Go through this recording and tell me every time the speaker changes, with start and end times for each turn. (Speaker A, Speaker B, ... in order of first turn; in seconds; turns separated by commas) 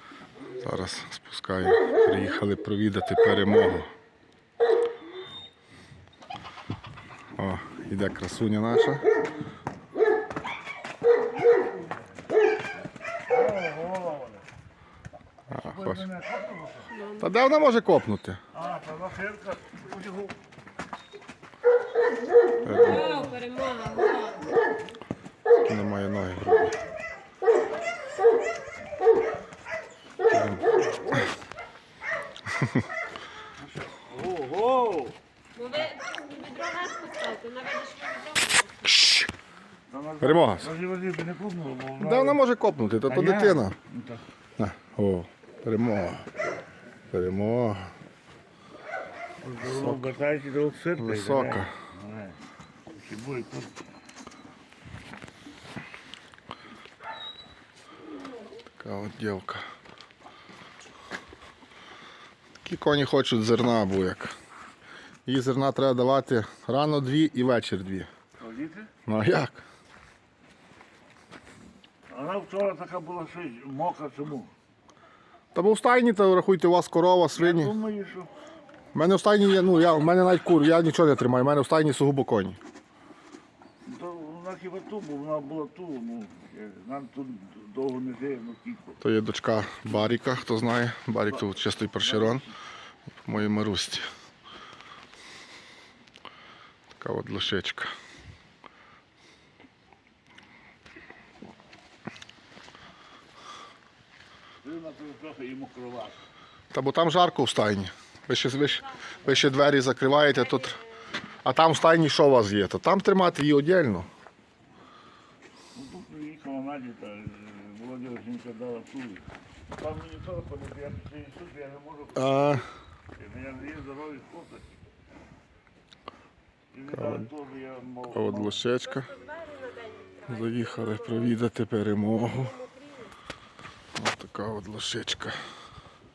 Speaker A: 0.6-3.9, Speaker A: 7.4-9.1, Speaker B: 13.3-14.4, Speaker A: 15.5-16.0, Speaker B: 15.5-16.9, Speaker C: 16.9-17.3, Speaker A: 17.2-18.4, Speaker B: 18.5-20.4, Speaker A: 22.6-23.2, Speaker C: 22.7-24.6, Speaker A: 25.6-26.8, Speaker A: 30.3-30.8, Speaker B: 33.6-35.2, Speaker C: 35.5-39.0, Speaker A: 38.9-39.3, Speaker B: 39.9-42.4, Speaker A: 40.2-40.7, Speaker A: 42.0-43.8, Speaker B: 43.0-44.2, Speaker A: 44.6-46.3, Speaker A: 47.1-47.9, Speaker B: 49.4-52.4, Speaker A: 49.7-50.1, Speaker A: 51.0-51.7, Speaker B: 52.9-53.8, Speaker A: 58.8-59.6, Speaker A: 62.6-64.3, Speaker A: 65.2-68.1, Speaker B: 68.4-68.9, Speaker A: 69.0-69.6, Speaker B: 72.1-74.5, Speaker A: 75.5-77.7, Speaker B: 77.3-78.3, Speaker A: 78.9-82.6, Speaker B: 83.8-89.0, Speaker A: 89.0-92.4, Speaker B: 92.0-92.5, Speaker A: 93.2-94.1, Speaker A: 97.0-97.9, Speaker B: 104.6-106.2, Speaker A: 106.7-110.8, Speaker C: 108.7-109.4, Speaker C: 110.3-110.8, Speaker A: 111.4-114.1, Speaker B: 115.7-122.6, Speaker A: 122.2-122.6, Speaker B: 123.2-124.7, Speaker B: 126.7-128.6, Speaker A: 128.1-129.1, Speaker C: 128.8-131.5, Speaker A: 130.3-132.6, Speaker C: 132.1-133.2, Speaker A: 134.0-135.4